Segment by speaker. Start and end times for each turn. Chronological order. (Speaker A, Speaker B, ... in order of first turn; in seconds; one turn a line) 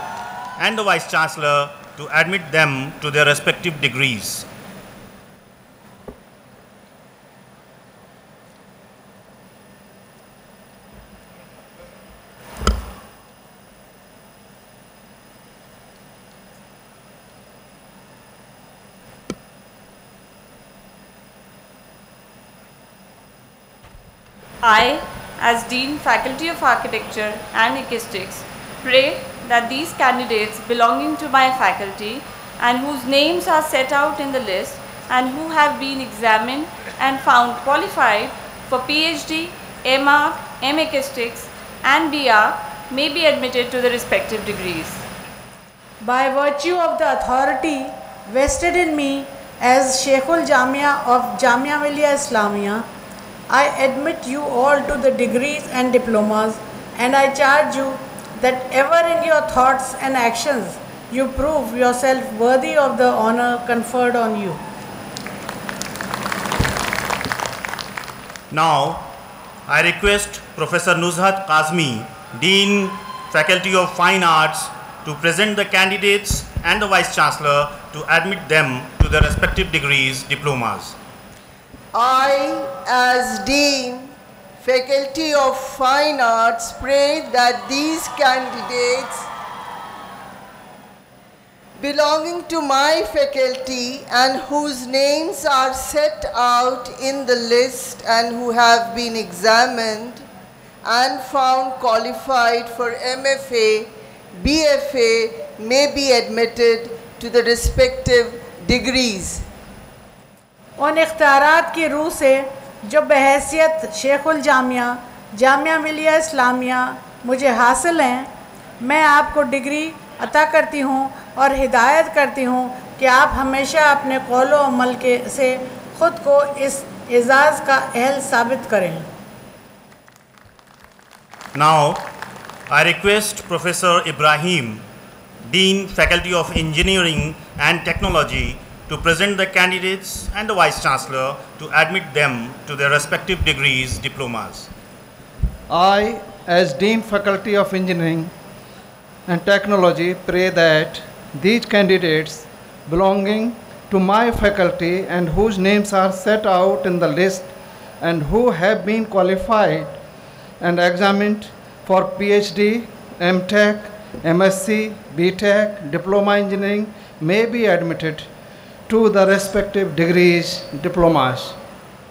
Speaker A: 0.6-4.5
Speaker B: 24.6-45.0
Speaker C: 46.0-52.9
Speaker C: 53.5-64.6
Speaker A: 68.5-69.1
Speaker A: 69.7-81.0
Speaker D: 81.9-89.3
Speaker D: 91.8-100.2
Speaker D: 100.8-109.5
Speaker C: 110.8-118.3
Speaker C: 118.8-129.1
Speaker A: 131.5-132.1
Speaker A: 132.7-134.8
Speaker A: 135.4-144.7
Speaker E: 145.7-148.3
Speaker E: 149.3-160.0
Speaker E: 160.6-168.3
Speaker E: 168.9-171.6